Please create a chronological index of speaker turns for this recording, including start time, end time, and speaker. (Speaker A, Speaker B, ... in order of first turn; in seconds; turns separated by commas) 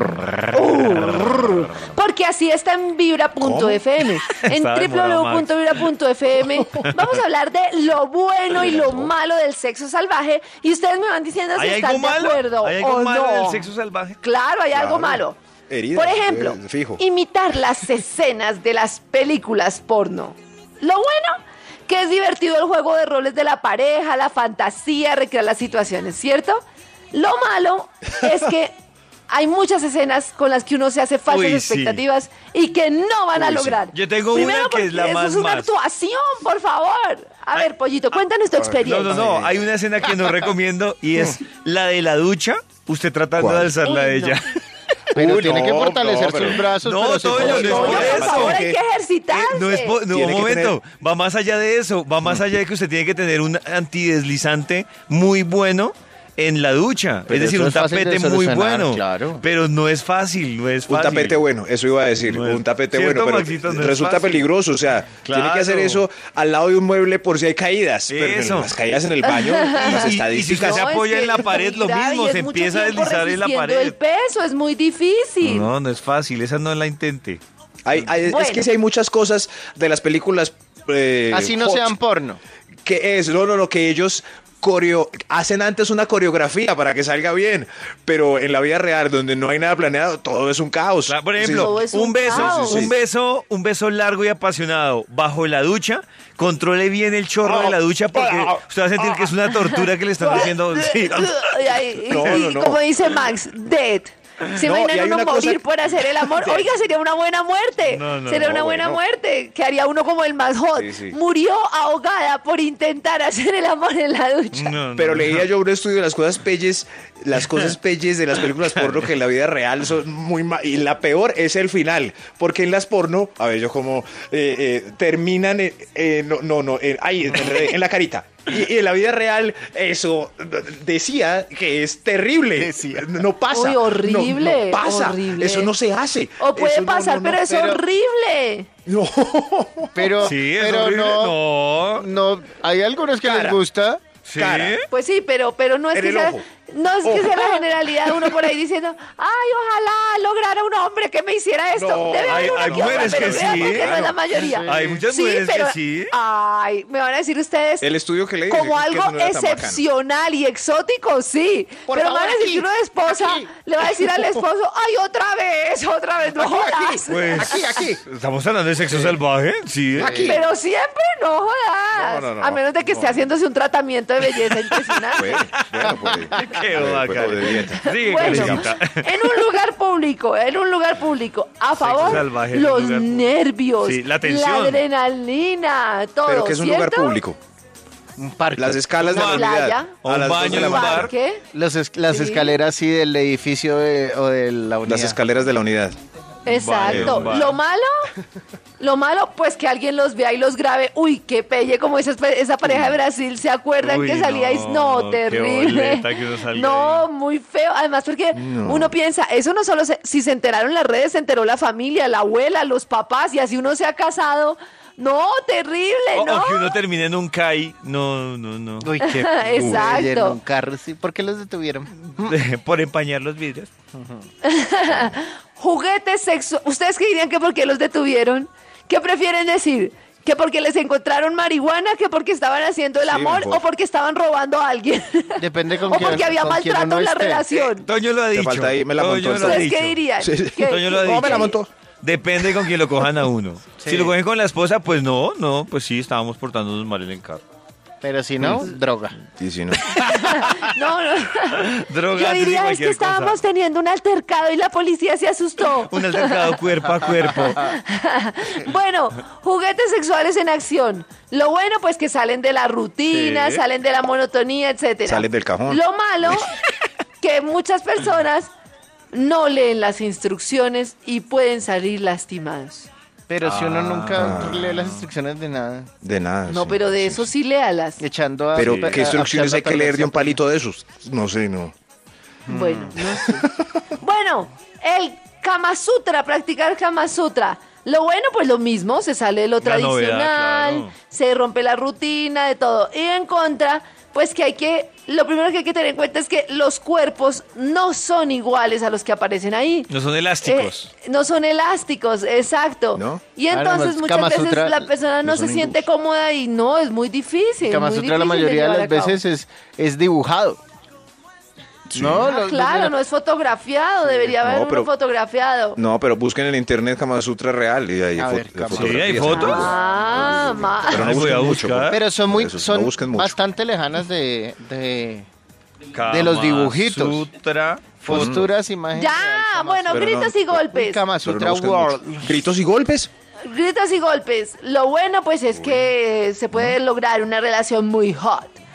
Speaker A: 0.5-15.4, Speaker B: 0.7-1.9, Speaker C: 3.4-3.8, Speaker B: 4.4-5.8, Speaker C: 6.6-7.2, Speaker C: 8.5-9.1, Speaker B: 11.6-14.2, Speaker C: 14.7-17.0, Speaker A: 15.9-26.6, Speaker A: 27.1-28.7, Speaker A: 29.3-39.2, Speaker B: 31.3-32.0, Speaker C: 33.3-33.8, Speaker B: 33.9-35.7, Speaker C: 38.5-39.6, Speaker B: 38.8-44.6, Speaker C: 43.4-43.8, Speaker A: 43.8-44.4, Speaker D: 45.1-48.2, Speaker C: 45.1-46.7, Speaker B: 46.8-48.6, Speaker C: 47.3-48.8, Speaker A: 47.4-50.0, Speaker B: 49.3-61.4, Speaker C: 50.1-50.8, Speaker D: 57.3-59.4, Speaker C: 60.9-70.9, Speaker B: 62.2-64.5, Speaker B: 65.2-66.0, Speaker B: 68.1-68.8, Speaker A: 69.2-75.7, Speaker B: 69.8-74.0, Speaker B: 75.4-77.4, Speaker C: 77.8-81.9, Speaker A: 78.2-78.7, Speaker D: 81.3-82.4, Speaker C: 82.8-93.0, Speaker B: 91.1-102.5, Speaker A: 91.4-92.9, Speaker C: 97.4-99.3, Speaker A: 99.5-114.8, Speaker C: 102.1-102.8, Speaker C: 104.6-106.7, Speaker B: 107.8-108.6, Speaker C: 108.4-109.0, Speaker C: 110.7-111.2, Speaker B: 114.5-115.5, Speaker C: 114.9-137.5, Speaker D: 132.6-133.3, Speaker A: 133.5-135.7, Speaker A: 136.4-138.7, Speaker D: 137.5-137.8, Speaker C: 138.8-140.3, Speaker D: 139.9-141.4, Speaker B: 140.2-142.1, Speaker D: 141.9-144.0, Speaker C: 143.2-143.6, Speaker B: 144.2-144.8, Speaker C: 144.4-144.8, Speaker A: 144.9-157.9, Speaker C: 145.9-146.4, Speaker C: 147.0-147.6, Speaker C: 151.7-154.3, Speaker B: 152.2-154.0, Speaker D: 154.4-155.0, Speaker B: 154.5-156.1, Speaker C: 157.8-159.8, Speaker A: 158.5-167.8, Speaker C: 161.9-162.7, Speaker C: 166.3-168.0, Speaker B: 167.1-170.3, Speaker C: 168.9-169.2, Speaker C: 169.9-170.4, Speaker D: 170.0-170.4, Speaker A: 170.0-176.1, Speaker C: 171.9-173.3, Speaker C: 175.2-178.7, Speaker B: 176.3-179.1, Speaker A: 177.8-187.2, Speaker B: 181.8-184.8, Speaker C: 186.2-187.4, Speaker D: 188.2-188.8, Speaker C: 188.6-191.1, Speaker B: 189.0-189.5, Speaker A: 189.1-191.4, Speaker B: 190.0-191.1, Speaker D: 191.5-195.2, Speaker A: 192.1-192.6, Speaker C: 194.8-196.0, Speaker A: 196.4-198.1, Speaker B: 196.4-197.6, Speaker C: 196.9-197.4, Speaker A: 198.8-216.8, Speaker B: 203.8-207.1, Speaker C: 208.3-208.9, Speaker B: 216.1-218.9, Speaker D: 218.8-222.3, Speaker A: 219.0-220.4, Speaker B: 222.2-223.7, Speaker D: 223.9-224.2, Speaker A: 224.4-237.9, Speaker C: 233.0-233.6, Speaker D: 235.4-237.4, Speaker B: 237.5-239.9, Speaker C: 238.3-241.7, Speaker A: 239.3-241.6, Speaker B: 240.6-247.4, Speaker D: 243.8-244.1, Speaker D: 248.0-249.2, Speaker C: 249.4-250.0, Speaker A: 249.9-266.5, Speaker B: 249.9-250.7, Speaker B: 251.5-253.4, Speaker B: 255.9-257.7, Speaker B: 263.1-263.6, Speaker C: 265.1-266.4, Speaker A: 267.2-268.5, Speaker A: 269.1-272.9, Speaker D: 273.3-275.9, Speaker B: 273.4-275.1, Speaker C: 274.1-274.6, Speaker C: 276.0-277.3, Speaker A: 276.4-278.0, Speaker D: 278.0-280.4, Speaker C: 278.5-281.7, Speaker B: 278.6-279.1, Speaker D: 282.5-283.1, Speaker A: 282.5-283.5, Speaker A: 284.0-299.9, Speaker B: 289.6-290.9, Speaker B: 299.9-300.9, Speaker A: 300.4-309.2, Speaker C: 302.9-303.2, Speaker D: 303.5-305.8, Speaker D: 307.6-310.6, Speaker D: 311.9-313.0, Speaker C: 311.9-312.3, Speaker A: 312.3-315.8, Speaker C: 314.2-314.9, Speaker C: 315.8-323.3, Speaker D: 318.2-320.8, Speaker B: 318.7-319.8, Speaker A: 319.2-321.4, Speaker B: 320.9-322.0, Speaker D: 321.9-325.3, Speaker B: 325.9-328.5, Speaker D: 326.0-327.2, Speaker D: 328.1-332.4, Speaker C: 328.1-328.4, Speaker A: 328.9-331.0, Speaker C: 329.9-330.4, Speaker C: 331.2-333.1, Speaker A: 333.4-338.6, Speaker C: 335.5-335.9